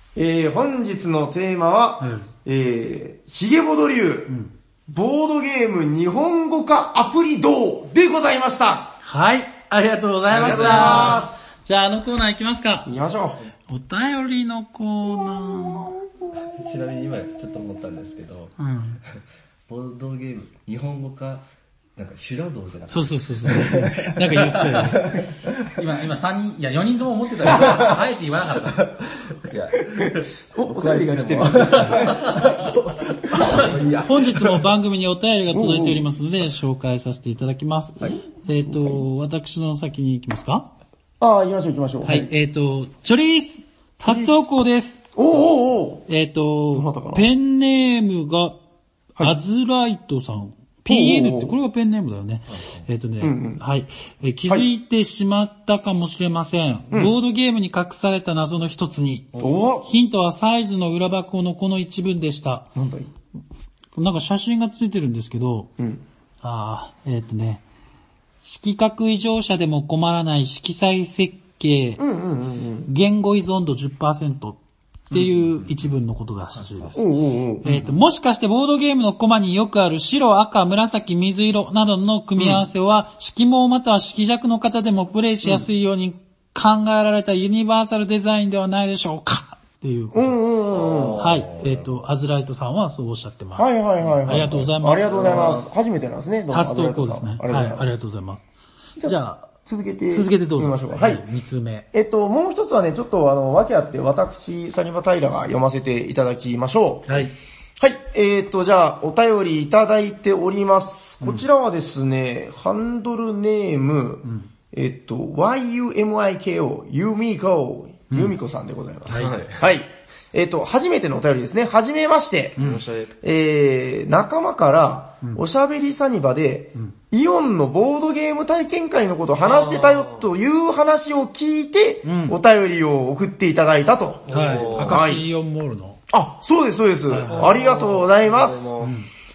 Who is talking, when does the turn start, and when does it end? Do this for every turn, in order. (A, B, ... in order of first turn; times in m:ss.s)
0:00.1-0:04.3 A
0:02.0-0:02.3 B
0:04.9-0:09.0 A
0:09.0-0:12.9 B
0:10.3-0:11.2 C
0:10.3-0:11.5 A
0:12.8-0:13.4 A
0:13.7-0:15.9 B
0:15.4-0:16.4 A
0:16.4-0:18.5 D
0:18.6-0:19.0 B
0:19.0-0:21.4 D
0:22.0-0:25.7 D
0:22.9-0:25.1 B
0:24.3-0:24.9 C
0:25.7-0:29.0 C
0:27.5-0:27.9 D
0:29.4-0:34.6 D
0:29.9-0:32.4 A
0:32.0-0:32.6 C
0:33.3-0:33.7 A
0:34.0-0:40.7 B
0:35.5-0:36.1 A
0:38.4-0:39.0 A
0:41.2-0:42.3 A
0:42.0-0:45.0 B
0:44.0-0:44.5 A
0:45.1-0:46.1 A
0:46.1-0:48.6 B
0:46.7-0:47.3 A
0:49.2-1:02.7 B
0:50.9-0:51.6 A
0:52.5-0:52.8 D
0:53.2-0:53.6 A
0:56.9-0:57.1 A
0:59.4-0:59.9 A
1:02.7-1:03.1 A
1:03.9-1:05.7 B
1:05.8-1:06.0 A
1:06.4-1:07.6 B
1:08.4-1:12.0 B
1:12.0-1:12.9 A
1:12.8-1:17.1 B
1:16.9-1:17.8 A
1:17.6-1:30.4 B
1:22.4-1:22.6 A
1:30.1-1:31.2 A
1:30.7-1:31.9 D
1:31.2-1:33.6 B
1:33.5-1:38.0 A
1:34.2-1:35.5 B
1:35.1-1:35.7 D
1:36.5-1:38.4 B
1:39.0-1:41.2 A
1:39.0-1:39.5 B
1:40.1-1:41.9 B
1:41.9-1:47.3 A
1:47.1-1:47.3 B
1:47.8-2:15.2 A
1:59.1-1:59.4 B
1:59.1-1:59.6 D
2:02.6-2:03.1 D
2:09.4-2:10.3 D
2:12.0-2:12.4 B
2:14.3-2:15.0 D
2:14.3-2:16.0 B
2:16.1-2:18.7 A
2:17.1-2:17.5 B
2:17.2-2:18.9 D
2:18.8-2:19.1 B